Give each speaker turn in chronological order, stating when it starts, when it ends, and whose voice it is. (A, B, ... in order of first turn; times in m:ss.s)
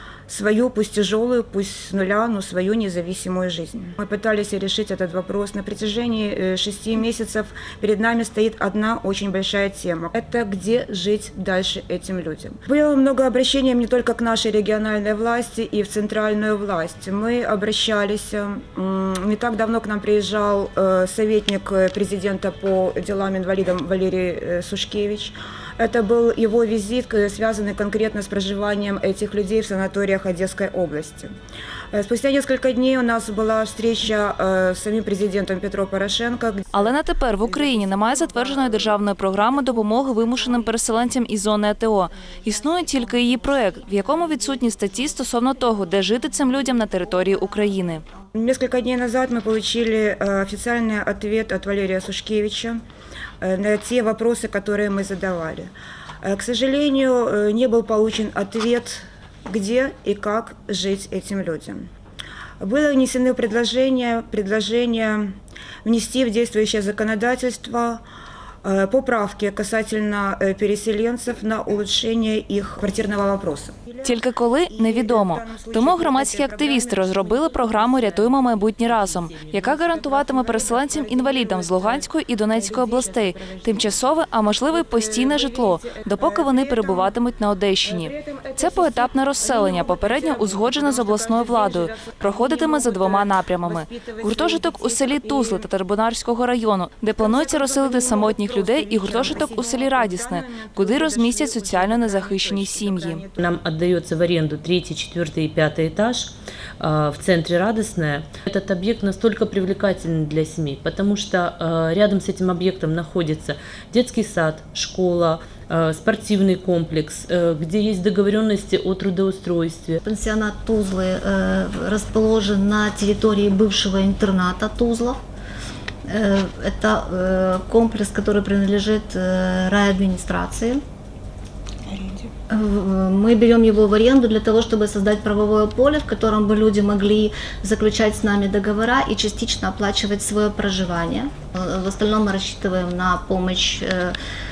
0:00.3-0:31.3 A
0:31.9-0:40.8 A
0:36.7-0:48.0 B
0:42.7-0:43.2 C
0:46.6-0:47.6 C
0:48.3-0:52.8 A
0:53.4-0:55.7 A
0:56.2-1:01.9 A
1:02.6-1:08.0 A
1:08.6-1:18.4 A
1:14.0-1:43.2 B
1:19.3-1:24.0 A
1:24.6-1:27.2 A
1:27.8-1:35.7 A
1:37.2-1:43.5 A
1:43.4-2:00.0 D
2:00.0-2:05.2 C
2:06.0-2:10.8 C
2:11.9-2:12.3 A
2:12.5-2:24.1 C